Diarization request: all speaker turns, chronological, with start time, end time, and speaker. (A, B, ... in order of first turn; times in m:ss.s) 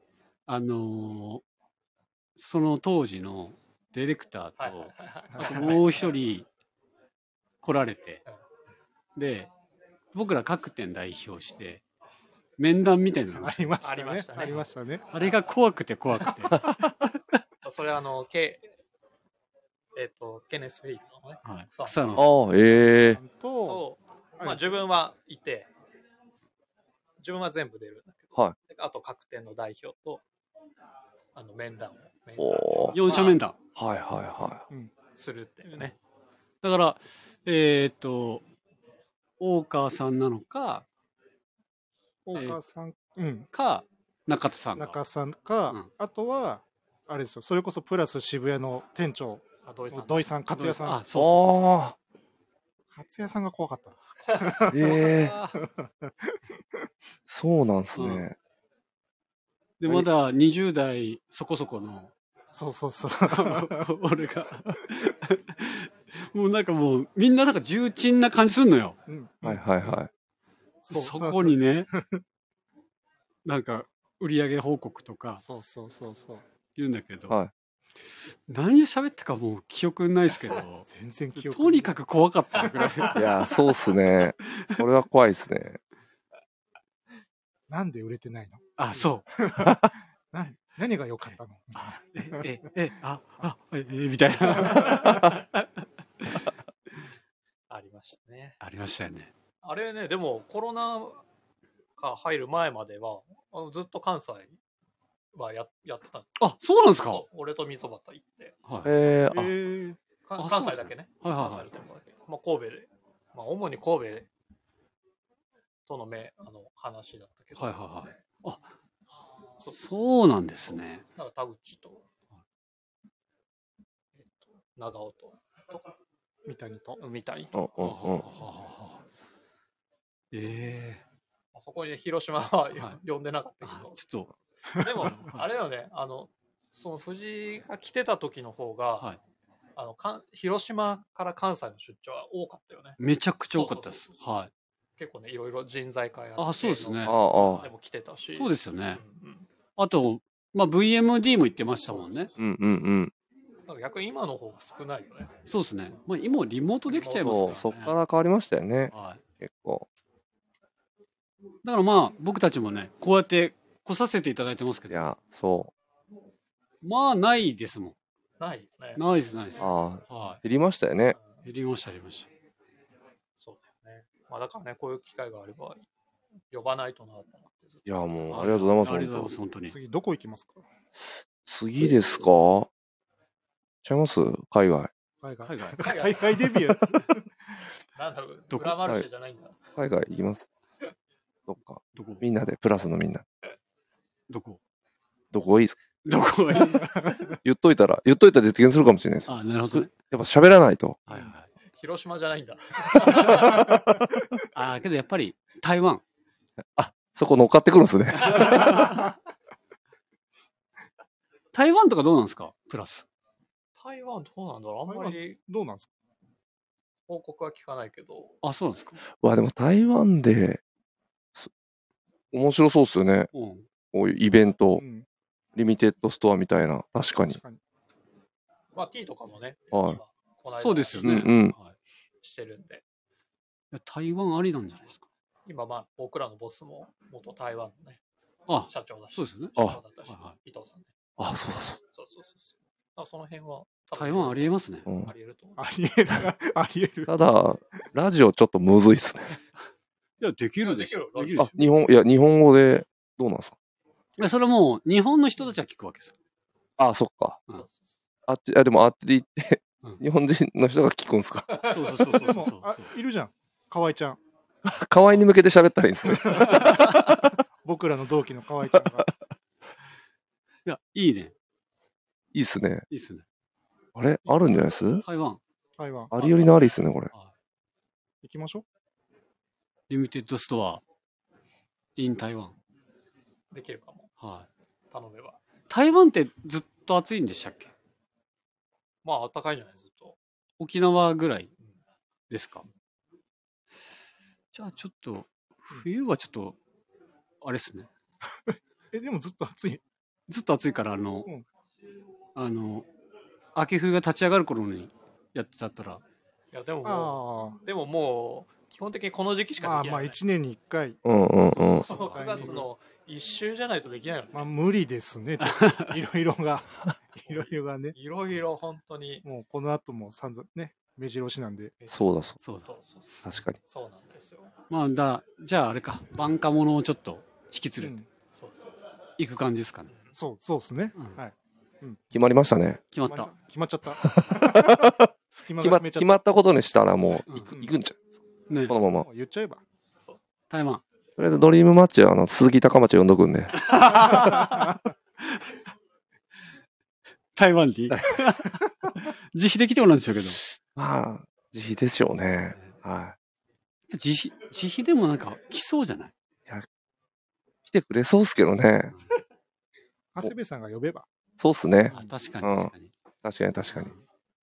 0:00.5-0:01.4 A
0:02.4-0:06.5 A
0:04.6-0:05.8 B
0:05.4-0:05.8 C
0:07.6-0:08.2 A
0:09.2-0:09.5 A
0:10.1-0:11.8 A
0:12.6-0:13.7 A
0:13.3-0:15.1 C
0:13.8-0:14.6 B
0:15.1-0:16.7 A
0:17.6-0:18.7 B
0:20.0-0:22.3 B
0:21.4-0:22.3 A
0:22.2-0:23.2 D
0:23.0-0:23.8 C
0:23.6-0:25.7 B
0:24.4-0:24.8 C
0:27.2-0:30.2 B
0:31.4-0:33.4 B
0:32.4-0:33.0 D
0:32.9-0:33.6 A
0:33.8-0:34.6 D
0:35.2-0:36.0 B
0:36.6-0:38.4 A
0:39.4-0:40.8 A
0:42.3-0:43.5 C
0:43.5-0:45.0 A
0:44.8-0:51.0 C
0:49.6-0:50.2 B
0:50.5-0:51.6 A
0:51.1-0:52.0 D
0:52.9-0:55.0 C
0:54.7-0:55.4 D
0:54.8-0:55.6 A
0:55.6-0:56.4 C
0:57.3-0:58.4 D
0:58.0-0:58.2 A
0:59.8-1:02.1 A
1:02.5-1:03.8 C
1:03.3-1:09.0 A
1:09.1-1:10.0 C
1:09.4-1:10.1 D
1:10.9-1:11.9 A
1:10.9-1:12.2 C
1:13.4-1:15.4 A
1:15.4-1:16.4 C
1:16.8-1:17.4 A
1:18.5-1:23.3 A
1:20.9-1:22.0 C
1:23.1-1:25.8 D
1:27.7-1:28.6 C
1:28.8-1:29.3 A
1:29.4-1:32.4 C
1:29.6-1:29.9 D
1:31.3-1:35.6 A
1:37.7-1:38.6 B
1:38.6-1:39.3 A
1:39.6-1:41.2 B
1:42.0-1:44.6 B
1:45.3-1:46.5 B
1:46.4-1:47.2 A
1:47.0-1:48.5 B
1:48.7-1:48.9 A
1:48.8-1:49.5 D
1:49.3-1:50.0 C
1:50.2-1:54.3 B
1:50.4-1:51.7 A
1:55.9-1:57.8 B
1:57.6-1:58.6 A
1:59.6-1:59.9 B
1:59.7-2:01.0 A
2:01.2-2:02.0 B
2:04.2-2:05.9 B
2:06.5-2:07.0 C
2:07.0-2:07.9 B
2:07.5-2:08.2 D
2:07.8-2:09.0 A
2:10.3-2:11.0 A
2:11.5-2:14.0 B
2:13.6-2:14.3 A
2:14.8-2:19.1 B
2:15.1-2:15.4 A
2:19.8-2:23.0 B
2:23.0-2:24.5 A
2:23.5-2:24.1 B
2:25.0-2:29.5 B
2:26.4-2:27.7 A
2:27.1-2:27.6 D
2:28.4-2:29.0 A
2:29.8-2:32.3 A
2:31.9-2:32.3 B
2:32.4-2:33.1 D
2:33.7-2:35.3 B
2:35.5-2:38.0 A
2:36.9-2:37.7 B
2:37.2-2:39.9 D
2:38.9-2:39.2 A
2:41.6-2:45.0 A
2:44.9-2:45.7 D
2:46.8-2:48.0 A
2:48.4-2:49.0 B
2:49.0-2:50.4 A
2:49.6-2:51.2 D
2:51.1-2:51.4 B
2:51.4-2:52.3 A
2:53.4-2:55.9 B
2:56.5-2:58.0 B
2:57.9-2:59.3 D
2:58.3-2:59.8 A
2:59.7-3:00.6 C
3:01.4-3:02.7 D
3:03.8-3:04.9 D
3:05.2-3:07.3 C
3:05.4-3:05.9 A
3:05.8-3:06.3 B
3:08.0-3:09.6 B
3:08.5-3:08.8 A
3:09.8-3:10.5 D
3:11.5-3:13.2 D
3:11.9-3:12.2 A
3:14.3-3:14.6 A
3:15.3-3:15.8 D
3:16.0-3:17.2 A
3:17.4-3:21.0 D
3:19.3-3:19.9 A
3:21.1-3:21.5 A
3:21.8-3:23.7 B
3:24.5-3:26.0 A
3:26.8-3:29.0 D
3:28.3-3:29.0 A
3:31.5-3:33.1 A
3:33.8-3:35.4 B
3:34.9-3:35.9 C
3:37.1-3:38.4 B
3:38.4-3:39.0 A
3:39.2-3:40.6 D
3:42.3-3:43.3 D
3:43.3-3:43.7 A
3:43.9-3:44.8 D
3:44.8-3:45.1 C
3:45.6-3:47.4 D
3:47.3-3:47.6 C
3:48.8-3:51.3 B
3:49.7-3:50.0 D
3:50.6-3:51.8 A
3:51.0-3:51.6 D
3:52.2-3:52.8 B
3:53.7-3:55.1 A
3:55.5-3:58.0 B
3:58.5-3:59.5 A
3:58.7-4:00.9 B
4:00.1-4:00.3 A
4:01.2-4:01.8 D
4:01.9-4:05.6 B
4:04.0-4:04.9 A
4:05.6-4:07.1 C
4:07.1-4:09.4 D
4:10.2-4:11.5 A
4:10.6-4:11.6 B
4:11.4-4:13.6 D
4:14.2-4:16.1 A
4:16.8-4:17.4 D
4:17.5-4:17.9 B
4:18.3-4:21.6 D
4:21.5-4:21.8 B
4:21.6-4:22.9 A
4:22.2-4:24.2 C
4:24.6-4:27.4 D
4:27.6-4:29.1 C
4:30.7-4:31.3 A
4:32.3-4:32.8 D
4:32.9-4:33.2 A
4:34.0-4:35.0 D
4:35.0-4:35.4 A
4:35.8-4:36.1 C
4:36.1-4:37.1 D
4:38.2-4:38.6 C
4:39.9-4:40.8 A
4:42.0-4:42.6 A
4:43.5-4:44.1 B
4:44.2-4:44.5 A
4:44.9-4:45.4 B
4:45.7-4:47.7 A
4:49.0-4:50.2 B
4:50.6-4:51.5 A
4:52.3-4:52.6 A
4:54.5-4:56.6 A
4:57.4-4:57.9 A
4:58.3-4:59.8 C
5:00.3-5:01.3 A
5:02.4-5:02.9 A
5:03.6-5:06.0 A
5:06.5-5:10.2 B
5:06.8-5:07.6 C
5:09.6-5:11.0 C
5:11.0-5:12.0 D
5:11.6-5:12.6 A
5:11.8-5:14.5 B
5:11.9-5:12.7 C
5:14.3-5:18.0 C
5:15.4-5:15.9 A
5:17.3-5:19.2 B
5:19.2-5:21.8 C
5:21.9-5:22.4 D
5:22.4-5:22.7 A
5:22.6-5:24.5 B
5:23.2-5:23.6 D
5:24.7-5:28.0 A
5:27.8-5:28.1 C
5:28.3-5:28.9 B
5:29.2-5:29.9 A
5:30.2-5:32.0 C
5:32.1-5:32.8 D
5:32.9-5:33.3 A
5:33.1-5:36.2 C
5:34.0-5:38.0 D
5:37.5-5:37.7 C
5:38.5-5:38.8 A
5:38.7-5:39.1 D
5:38.9-5:39.6 C
5:40.5-5:40.8 A
5:41.2-5:43.7 D
5:43.6-5:44.8 A
5:44.2-5:44.7 C
5:47.4-5:50.4 A
5:50.8-5:53.2 D
5:53.9-5:56.1 A
5:57.7-5:59.0 D
6:00.2-6:01.1 C
6:01.4-6:02.7 D
6:01.9-6:02.9 A
6:03.2-6:03.9 D
6:03.7-6:04.0 A